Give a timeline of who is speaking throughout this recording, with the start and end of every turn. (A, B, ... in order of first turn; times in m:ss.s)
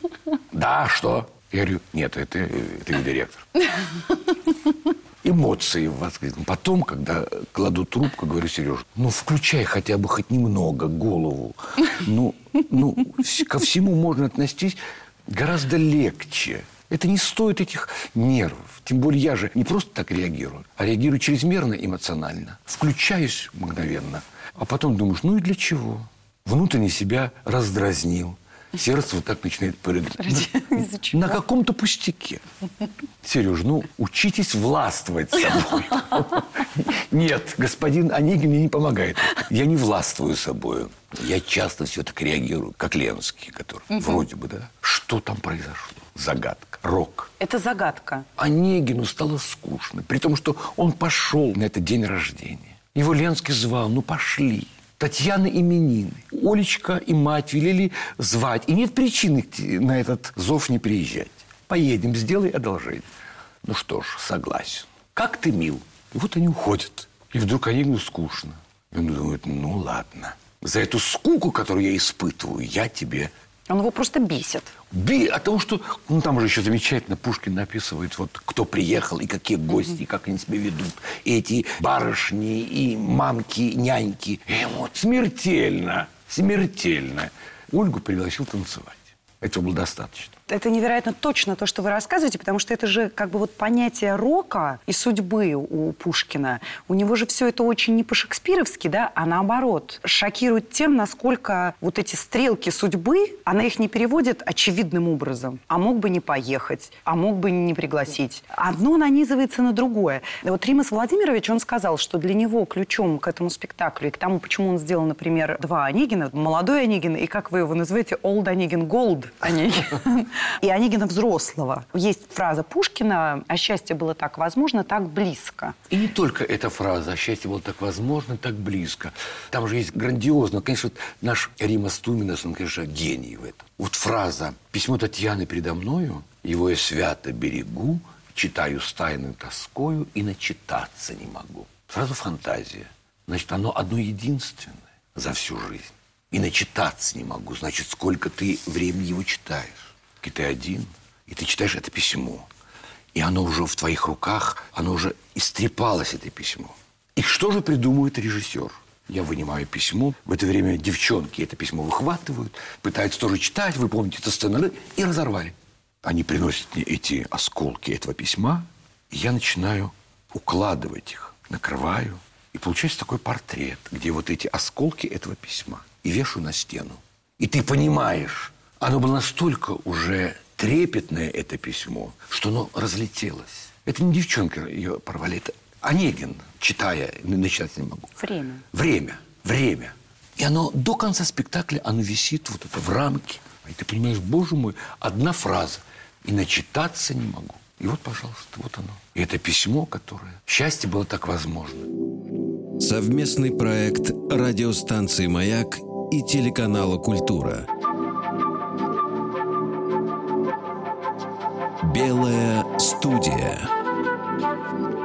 0:00.5-0:03.5 A
0:05.2-0:32.4 A
0:30.2-0:31.4 B
0:33.2-0:47.3 A
0:47.4-0:48.3 B
0:48.4-1:03.1 A
1:03.6-1:13.3 A
1:13.7-1:14.7 B
1:14.9-1:30.3 A
1:30.5-2:05.8 B
2:05.9-2:32.5 A
2:33.1-3:08.1 A
3:08.2-3:08.6 B
3:08.7-3:21.9 A
3:22.8-3:27.6 C
3:31.8-3:33.7 C